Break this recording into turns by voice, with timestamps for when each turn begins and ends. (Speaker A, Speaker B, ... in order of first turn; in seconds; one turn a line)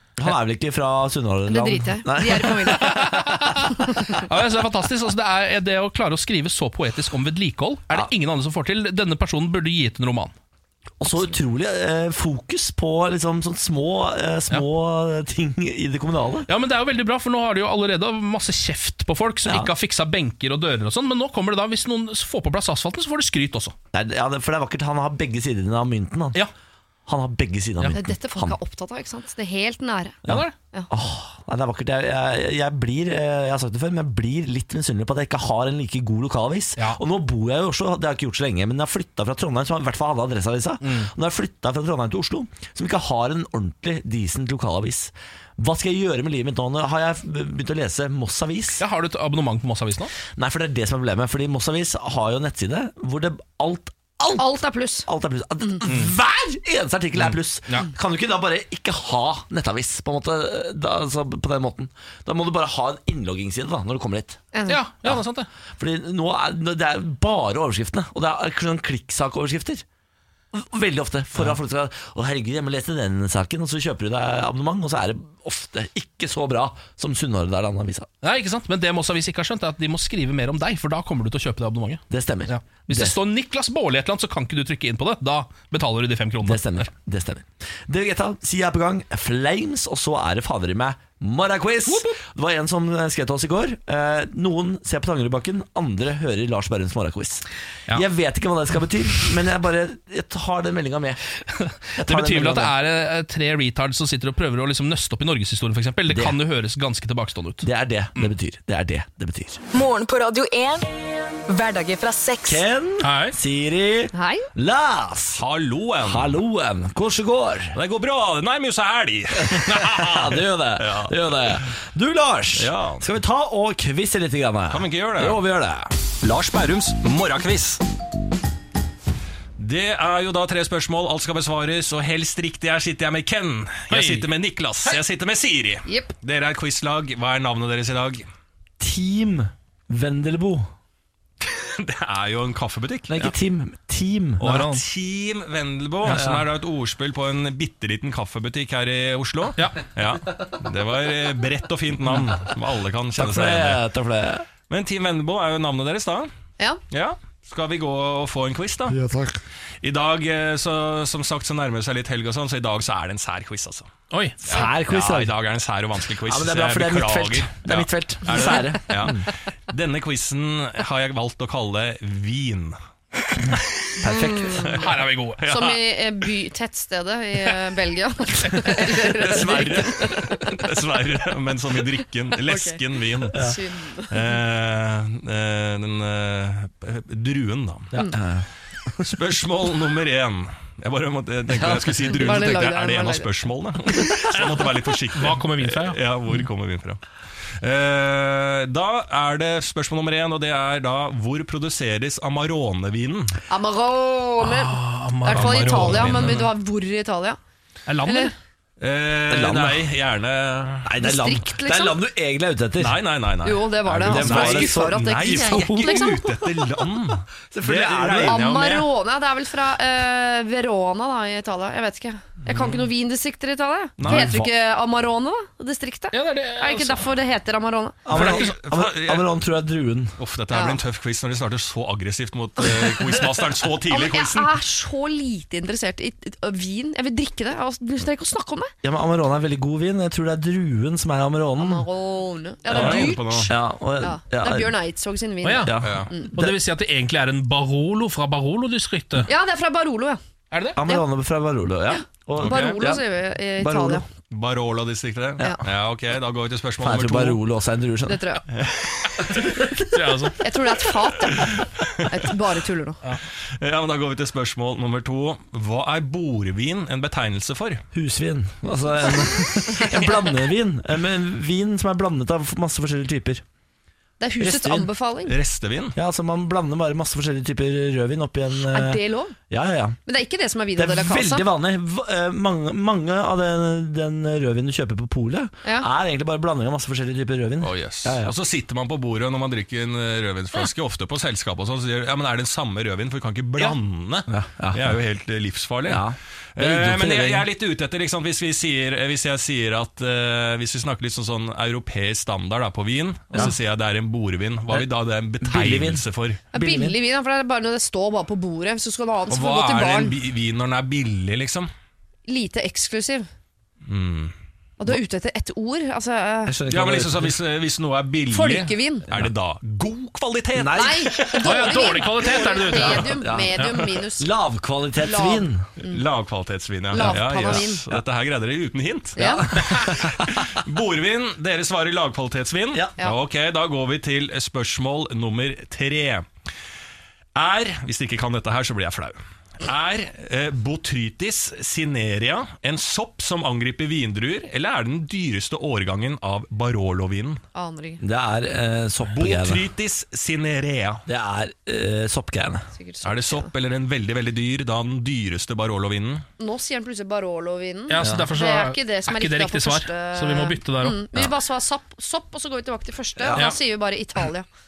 Speaker A: 0.2-3.0
Speaker B: 1.5-4.1
Speaker C: 2.9-10.3
Speaker A: 11.0-16.5
Speaker C: 16.5-23.8
Speaker A: 19.5-19.7
Speaker A: 23.9-26.4
Speaker A: 27.1-28.6
Speaker B: 27.9-30.2
Speaker A: 30.3-48.8
Speaker C: 30.3-30.5
Speaker C: 40.8-41.1
Speaker C: 48.8-50.1
Speaker A: 50.3-54.5
Speaker B: 54.4-55.1
Speaker A: 55.0-64.4
Speaker C: 57.3-57.9
Speaker B: 64.5-64.8
Speaker C: 64.7-65.5
Speaker A: 65.8-69.8
Speaker A: 70.5-78.1
Speaker C: 78.2-86.9
Speaker A: 82.1-83.2
Speaker A: 86.4-101.2
Speaker C: 91.9-92.2
Speaker A: 102.0-102.7
Speaker C: 102.0-107.7
Speaker A: 106.1-106.4
Speaker A: 107.6-109.6
Speaker D: 109.7-110.9
Speaker D: 111.5-112.6
Speaker A: 112.4-115.4
Speaker C: 113.0-113.3
Speaker B: 114.1-114.5
Speaker E: 115.4-116.3
Speaker A: 116.0-117.8
Speaker E: 117.8-121.1
Speaker A: 119.4-125.9
Speaker E: 122.5-123.0
Speaker E: 124.7-125.4
Speaker E: 126.2-127.8
Speaker E: 129.6-138.2
Speaker C: 133.9-134.3
Speaker B: 135.8-136.1
Speaker A: 138.8-140.7
Speaker E: 141.6-143.3
Speaker A: 143.1-144.5
Speaker C: 144.4-144.8
Speaker E: 144.5-153.8
Speaker A: 146.1-146.4
Speaker A: 153.2-154.4
Speaker E: 154.7-156.3
Speaker E: 156.9-159.0
Speaker A: 158.9-159.3
Speaker E: 159.8-163.9
Speaker C: 164.1-164.4
Speaker A: 164.5-165.3
Speaker E: 164.5-172.8
Speaker A: 166.3-169.2
Speaker A: 174.0-174.7
Speaker B: 174.0-174.9
Speaker E: 174.6-174.9
Speaker C: 174.8-175.4
Speaker E: 175.4-175.8
Speaker B: 175.4-180.7
Speaker E: 178.9-183.5
Speaker B: 182.4-184.3
Speaker A: 183.3-183.6
Speaker E: 184.1-187.9
Speaker A: 187.9-188.4
Speaker E: 189.0-197.0
Speaker A: 191.6-192.2
Speaker B: 192.2-193.4
Speaker C: 195.2-196.0
Speaker E: 197.6-203.4
Speaker B: 203.5-207.4
Speaker C: 204.4-206.4
Speaker E: 205.4-206.5
Speaker C: 207.9-208.3
Speaker B: 208.0-208.3
Speaker E: 208.8-210.9
Speaker A: 209.3-209.9
Speaker A: 210.8-213.0
Speaker B: 211.0-212.0
Speaker E: 212.8-218.9
Speaker B: 213.4-216.5
Speaker A: 213.9-216.2
Speaker A: 217.5-218.4
Speaker B: 218.1-228.4
Speaker E: 224.0-224.5
Speaker A: 224.0-224.5
Speaker C: 226.1-227.1
Speaker A: 228.1-230.2
Speaker E: 228.1-229.3
Speaker E: 230.2-234.5
Speaker B: 230.5-230.8
Speaker B: 233.9-238.7
Speaker A: 238.8-241.8
Speaker B: 241.6-246.3
Speaker E: 242.7-243.5
Speaker A: 242.7-244.7
Speaker C: 245.4-249.3
Speaker A: 245.6-246.6
Speaker E: 245.8-246.1
Speaker B: 249.3-250.2
Speaker C: 250.5-250.8
Speaker A: 250.8-253.1
Speaker B: 251.9-254.1
Speaker E: 252.4-252.8
Speaker A: 253.6-254.1
Speaker E: 254.3-257.4
Speaker A: 256.8-258.2
Speaker B: 258.1-258.4
Speaker E: 258.5-259.4
Speaker C: 259.9-260.4
Speaker B: 260.4-263.0
Speaker E: 263.6-267.8
Speaker A: 267.9-273.4
Speaker B: 274.2-275.4
Speaker A: 274.4-274.9
Speaker E: 275.3-276.0
Speaker A: 275.9-280.0
Speaker B: 278.7-279.4
Speaker B: 280.1-281.5
Speaker A: 280.8-288.3
Speaker E: 287.6-296.1
Speaker A: 294.3-294.9
Speaker A: 295.9-297.5
Speaker E: 296.6-306.4
Speaker A: 305.4-307.0
Speaker B: 306.5-310.2
Speaker E: 309.3-311.7
Speaker B: 312.3-313.3
Speaker E: 313.9-314.3
Speaker B: 314.8-316.6
Speaker A: 316.5-317.3
Speaker E: 316.7-321.4
Speaker B: 318.3-319.1
Speaker A: 320.6-321.8
Speaker B: 320.7-324.3
Speaker C: 321.4-323.2
Speaker A: 322.5-325.7
Speaker B: 325.0-326.0
Speaker E: 325.9-336.3
Speaker B: 326.9-327.9
Speaker A: 327.0-327.6
Speaker B: 329.2-329.5
Speaker A: 329.6-330.1
Speaker E: 337.4-347.4
Speaker B: 347.5-348.0
Speaker A: 348.0-349.6
Speaker E: 349.1-351.0
Speaker A: 351.1-352.7
Speaker B: 352.7-353.5
Speaker E: 353.0-356.2
Speaker B: 356.4-364.5
Speaker C: 357.9-361.0
Speaker A: 358.0-358.3
Speaker A: 363.2-363.5